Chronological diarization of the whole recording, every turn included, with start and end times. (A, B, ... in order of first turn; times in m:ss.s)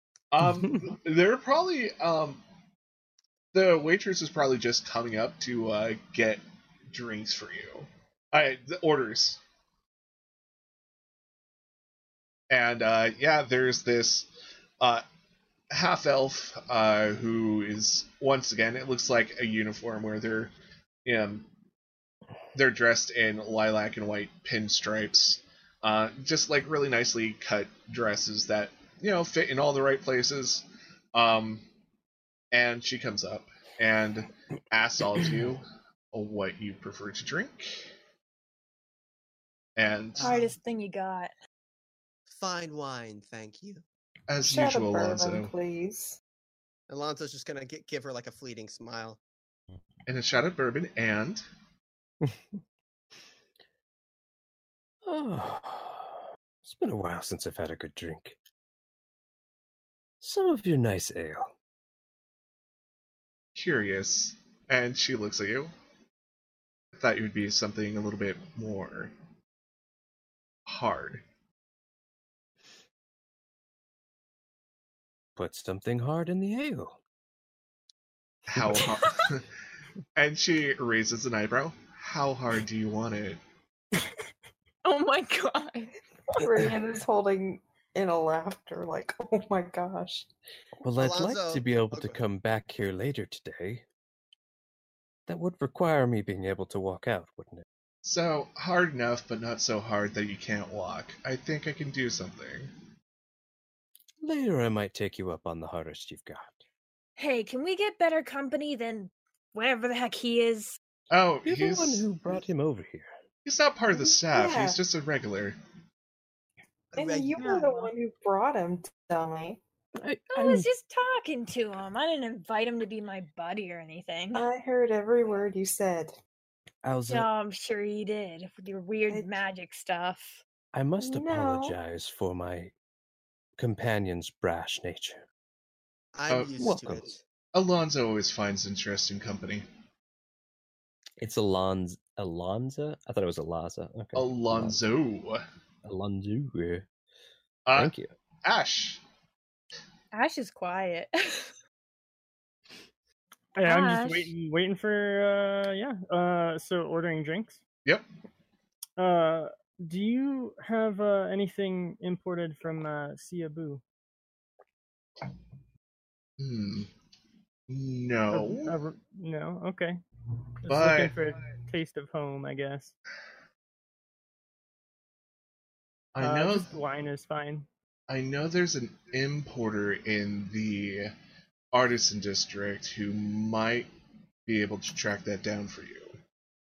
0:00.3-0:02.4 A
0:00.4-0:00.7 B
0:03.5-0:09.4 A
0:12.5-0:14.3 A
0:15.7-0:20.5 A
0:21.0-0:21.5 A
0:22.5-0:31.6 A
0:32.5-0:37.9 A
0:39.8-0:40.2 A
0:40.2-0:40.5 C
0:40.2-0:41.3 D
0:42.3-0:43.8 C
0:44.3-0:45.5 A
0:44.4-0:46.2 E
0:46.9-0:49.2 C
0:50.1-0:51.4 A
0:52.2-0:52.6 B
0:55.0-0:58.4 B
1:00.2-1:01.5 B
1:03.5-1:05.7 A
1:07.0-1:09.1 A
1:10.7-1:11.2 A
1:15.4-1:16.9 B
1:18.5-1:19.5 A
1:18.5-1:18.9 B
1:20.2-1:23.4 A
1:24.8-1:25.9 D
1:26.3-1:30.3 E
1:30.8-1:33.8 B
1:31.0-1:32.2 C
1:35.3-1:37.6 B
1:38.0-1:42.7 A
1:44.2-1:46.6 B
1:47.2-1:50.8 D
1:51.1-1:52.0 A
1:51.4-1:53.1 B
1:53.4-1:55.6 A
1:53.9-1:54.8 E
1:56.9-1:57.6 C
1:57.0-1:59.6 E
1:57.4-1:57.9 D
2:00.0-2:00.7 B
2:00.3-2:04.4 D
2:04.3-2:06.1 E
2:06.8-2:07.3 B
2:07.1-2:10.4 D
2:09.1-2:09.4 E
2:10.7-2:12.7 B
2:11.0-2:11.8 E
2:13.6-2:15.2 B
2:16.1-2:17.2 C
2:16.6-2:17.1 B
2:17.5-2:19.6 A
2:21.2-2:24.8 B
2:24.1-2:25.4 A
2:25.8-2:26.9 B
2:27.7-2:27.9 A
2:27.7-2:28.1 B
2:28.4-2:29.0 A
2:30.1-2:31.5 D
2:33.6-2:37.6 F
2:33.6-2:34.3 D
2:39.0-2:43.8 F
2:46.4-2:46.9 A
2:47.7-2:48.7 A
2:48.3-2:50.0 F
2:50.6-2:52.9 F
2:50.7-2:51.1 A
2:56.1-2:56.7 A
2:56.2-2:57.7 F
2:58.1-3:01.1 A
3:01.7-3:03.9 A
3:04.5-3:06.1 A